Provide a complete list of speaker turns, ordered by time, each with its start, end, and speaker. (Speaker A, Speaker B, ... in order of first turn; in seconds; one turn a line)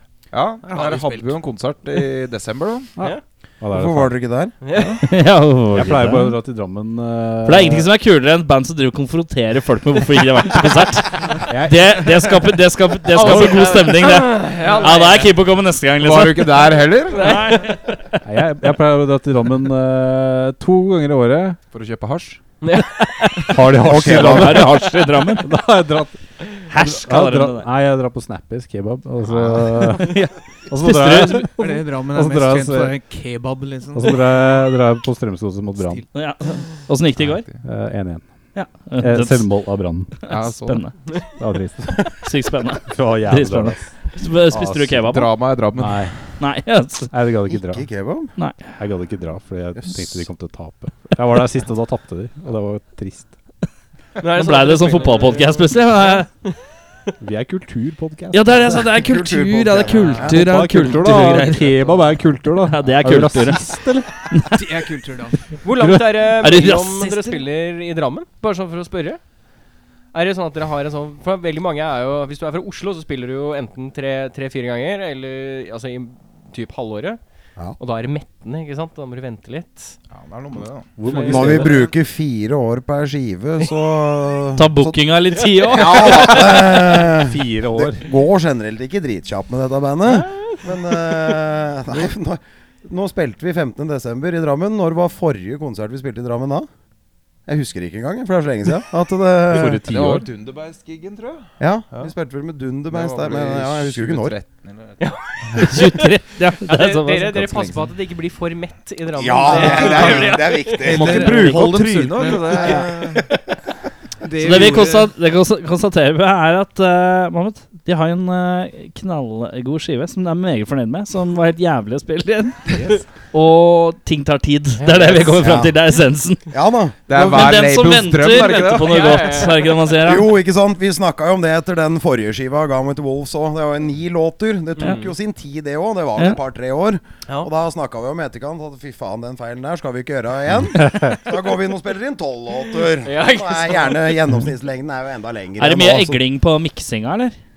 Speaker A: 0.3-2.9
Speaker B: 0.7-1.1
Speaker C: 3.0-4.2
Speaker D: 3.7-4.5
Speaker E: 4.6-5.0
Speaker F: 5.0-6.4
Speaker C: 5.7-7.9
Speaker F: 7.4-18.2
Speaker C: 11.5-12.1
Speaker E: 13.1-15.3
Speaker B: 14.6-15.0
Speaker A: 16.0-17.6
Speaker E: 17.1-17.7
Speaker C: 18.2-21.6
Speaker A: 21.7-22.4
Speaker E: 22.6-22.9
Speaker F: 23.0-25.5
Speaker C: 23.5-33.0
Speaker D: 23.8-24.7
Speaker F: 26.7-27.7
Speaker A: 29.3-29.6
Speaker F: 29.8-31.5
Speaker B: 31.5-34.3
Speaker C: 33.9-36.0
Speaker F: 36.1-37.5
Speaker A: 37.2-37.6
Speaker C: 37.6-38.3
Speaker F: 38.5-39.5
Speaker C: 39.0-40.1
Speaker F: 40.2-41.2
Speaker A: 40.2-41.0
Speaker C: 41.4-42.1
Speaker F: 42.2-45.3
Speaker C: 42.9-43.9
Speaker C: 44.5-45.0
Speaker A: 45.0-46.2
Speaker C: 45.7-46.2
Speaker F: 46.4-47.1
Speaker C: 47.1-47.9
Speaker D: 47.5-48.3
Speaker C: 48.7-53.4
Speaker D: 49.8-50.2
Speaker E: 54.2-56.5
Speaker F: 54.3-56.3
Speaker C: 57.2-58.9
Speaker F: 58.3-62.0
Speaker D: 58.7-60.4
Speaker C: 60.2-64.1
Speaker F: 62.6-64.6
Speaker B: 64.5-65.4
Speaker E: 65.6-69.2
Speaker F: 65.8-67.4
Speaker E: 70.1-77.2
Speaker E: 77.8-80.0
Speaker A: 80.1-80.9
Speaker C: 81.0-81.9
Speaker E: 81.1-81.9
Speaker D: 81.2-85.0
Speaker F: 84.5-86.8
Speaker D: 85.6-96.7
Speaker C: 87.1-88.1
Speaker E: 90.0-91.1
Speaker D: 97.5-99.8
Speaker C: 99.5-100.3
Speaker A: 99.6-102.1
Speaker D: 101.6-104.4
Speaker A: 102.9-105.2
Speaker E: 105.0-105.9
Speaker F: 105.6-107.5
Speaker E: 106.6-110.9
Speaker D: 109.2-111.4
Speaker B: 109.5-112.9
Speaker A: 109.7-110.1
Speaker F: 109.8-110.4
Speaker A: 110.8-113.2
Speaker F: 111.0-111.5
Speaker D: 112.5-113.2
Speaker B: 114.2-115.1
Speaker F: 114.4-126.5
Speaker E: 124.8-125.4
Speaker D: 125.3-125.7
Speaker D: 126.5-127.5
Speaker A: 127.1-129.0
Speaker F: 127.2-130.3
Speaker E: 128.7-130.0
Speaker D: 130.0-146.2
Speaker E: 134.8-135.1
Speaker E: 143.0-144.2
Speaker F: 145.6-147.3